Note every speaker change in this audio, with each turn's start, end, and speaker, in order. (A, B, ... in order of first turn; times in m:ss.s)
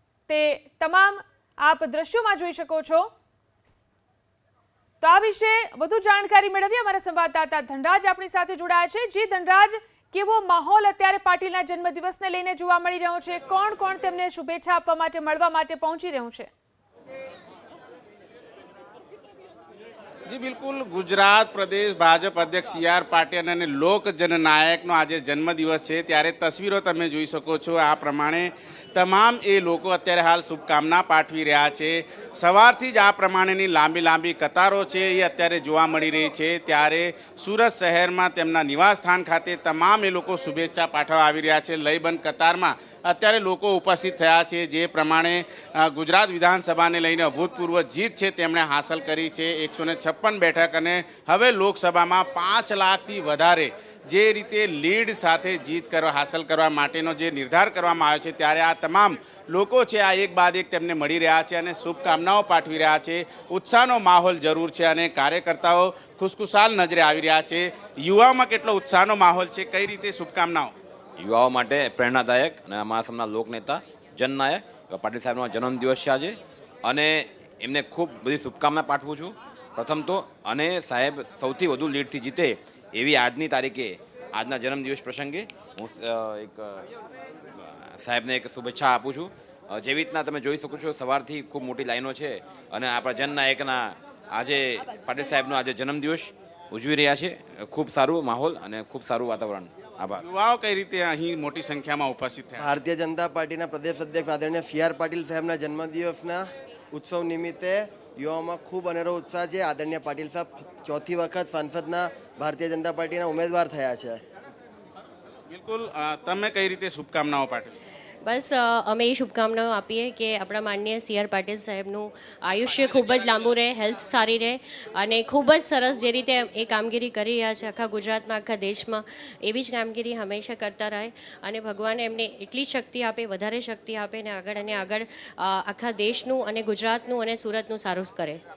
0:00.3-0:03.1 A
0:05.0-0:16.5 A
0:20.3-1:10.7 B
1:11.2-1:26.9 C
1:27.5-1:40.2 C
1:40.2-1:42.7 B
1:42.6-1:54.2 D
1:55.5-1:57.8 B
1:58.2-2:18.4 E
2:02.7-2:03.5 B